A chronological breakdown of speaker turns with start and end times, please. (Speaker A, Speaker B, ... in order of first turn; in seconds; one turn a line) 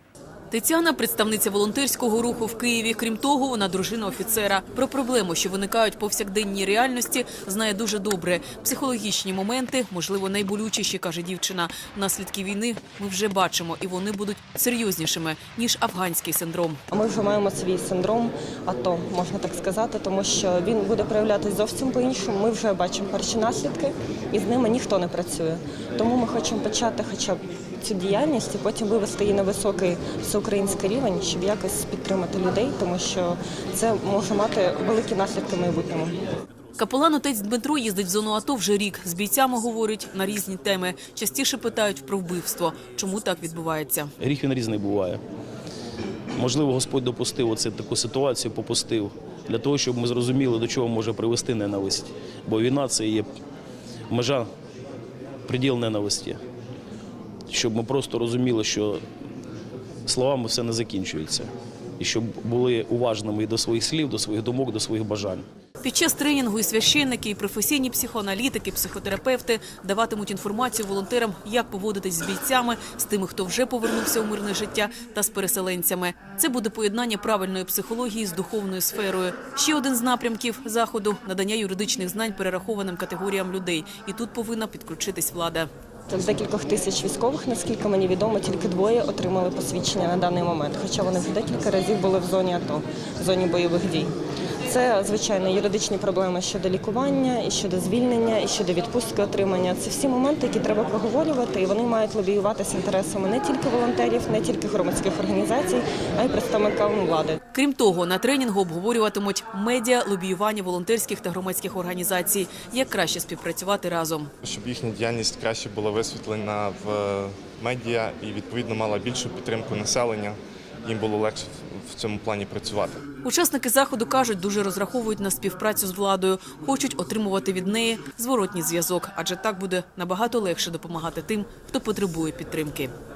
Speaker A: 0.5-16.8
Speaker B: 16.9-36.2
Speaker A: 36.8-44.1
Speaker C: 44.2-45.2
Speaker C: 46.4-53.3
Speaker C: 54.1-54.5
Speaker C: 55.5-56.4
Speaker C: 57.5-59.0
Speaker C: 60.1-65.5
Speaker A: 65.8-85.7
Speaker B: 86.1-94.1
Speaker B: 94.7-107.4
Speaker A: 107.5-114.3
Speaker D: 114.4-123.0
Speaker A: 123.2-132.9